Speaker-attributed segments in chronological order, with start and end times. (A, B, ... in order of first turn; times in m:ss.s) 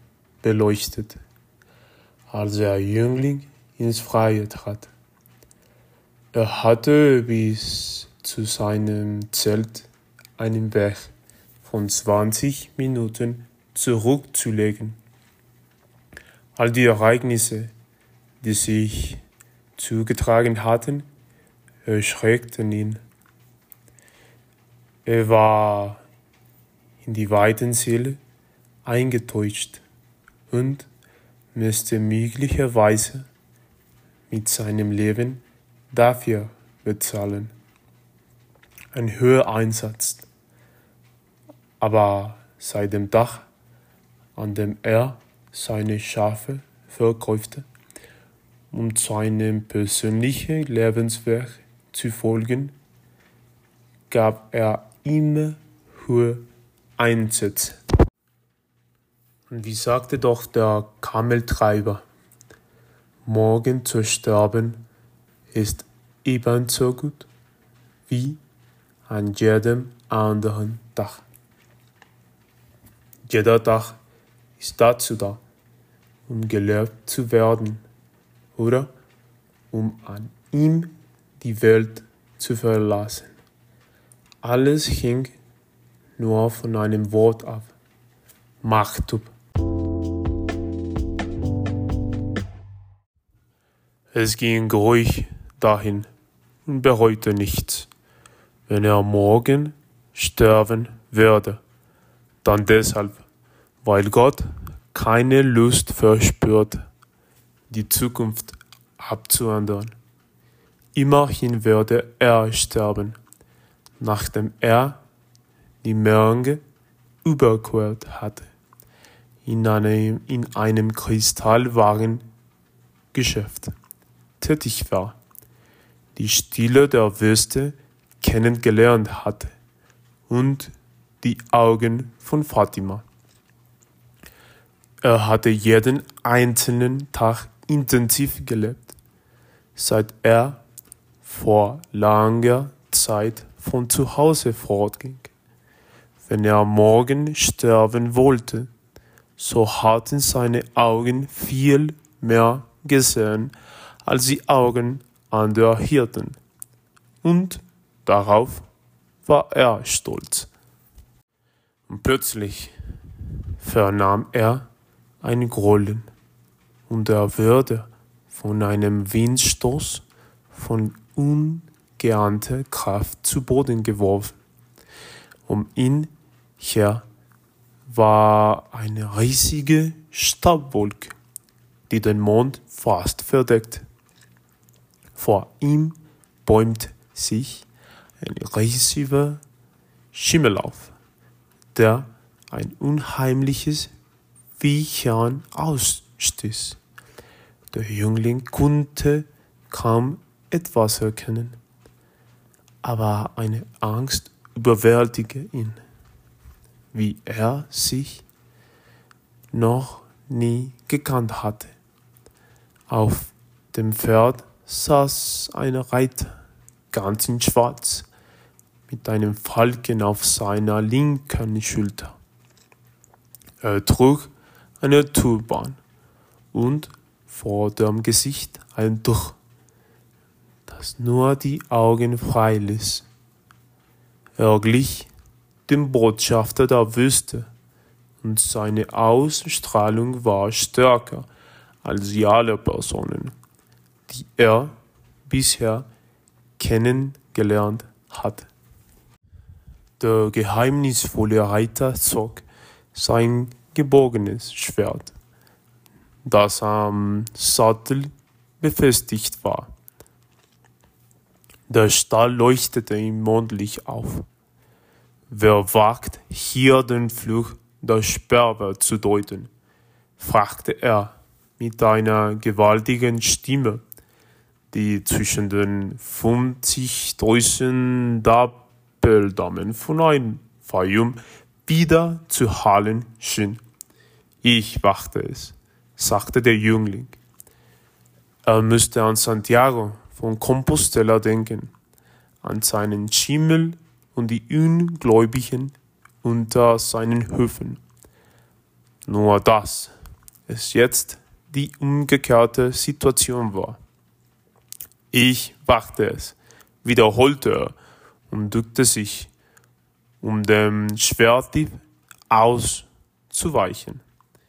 0:00.4-0:01.2 A
0:02.3-0:04.9 A
0:06.3-0:15.0 A
0:16.6-0:17.7 A
0:18.4-0:19.2 A
0:19.8-0:21.0 A
0:21.8-0:23.0 A
0:25.0-0:26.0 A
0:27.0-0:28.2 A
0:28.8-0:29.8 A
0:30.5-0:30.9 A
0:31.5-0:33.2 A
0:34.3-0:37.5 A
0:38.9-0:40.3 A
0:41.8-0:43.5 A
0:44.4-0:47.6 A
0:48.7-0:52.7 A
0:54.1-0:56.4 A
0:57.0-0:57.8 A
0:59.5-1:02.0 A
1:03.2-1:04.8 A
1:05.5-1:07.3 A
1:08.1-1:08.4 A
1:09.1-1:11.2 A
1:13.3-1:14.0 A
1:14.6-1:15.4 A
1:16.3-1:17.8 A
1:18.5-1:18.9 A
1:19.7-1:23.3 A
1:24.4-1:25.3 A
1:26.2-1:27.7 A
1:28.6-1:29.3 A
1:34.1-1:36.1 A
1:36.6-1:37.9 A
1:38.7-1:41.6 A
1:42.4-1:43.2 A
1:43.8-1:46.8 A
1:47.7-1:49.9 A
1:50.9-1:53.2 A
1:54.0-1:55.0 A
1:55.8-1:56.6 A
1:57.2-1:58.5 A
1:59.4-2:02.2 A
2:03.1-2:03.7 A
2:04.4-2:05.2 A
2:06.2-2:09.5 A
2:10.3-2:13.0 A
2:15.0-2:18.9 A
2:19.8-2:20.6 A
2:21.2-2:25.3 A
2:26.2-2:28.7 A
2:29.4-2:36.4 A
2:37.2-2:38.6 A
2:39.2-2:40.5 A
2:41.9-2:42.7 A
2:43.6-2:44.7 A
2:45.2-2:46.1 A
2:46.9-2:54.4 A
2:55.5-2:57.0 A
2:57.9-3:01.2 A
3:01.9-3:03.8 A
3:05.1-3:07.7 A
3:08.2-3:09.4 A
3:10.1-3:10.9 A
3:11.7-3:13.9 A
3:14.6-3:16.8 A
3:17.7-3:21.6 A
3:22.8-3:25.8 A
3:26.9-3:28.2 A
3:29.5-3:31.7 A
3:32.9-3:36.3 A
3:36.9-3:38.1 A
3:38.9-3:42.2 A
3:43.6-3:45.8 A
3:46.5-3:49.4 A
3:50.7-3:53.1 A
3:54.4-3:55.1 A
3:55.7-3:57.5 A
3:58.2-4:01.3 A
4:01.8-4:03.3 A
4:04.1-4:04.7 A
4:05.3-4:05.8 A
4:06.6-4:08.5 A
4:10.0-4:15.1 A
4:16.2-4:19.7 A
4:21.7-4:24.2 A
4:25.3-4:29.5 A
4:30.2-4:33.8 A
4:34.7-4:43.6 A
4:44.4-4:47.2 A
4:48.4-4:51.7 A
4:52.4-4:57.8 A
4:59.0-4:59.9 A
5:00.5-5:03.8 A
5:05.1-5:07.7 A
5:08.3-5:09.3 A
5:10.2-5:14.0 A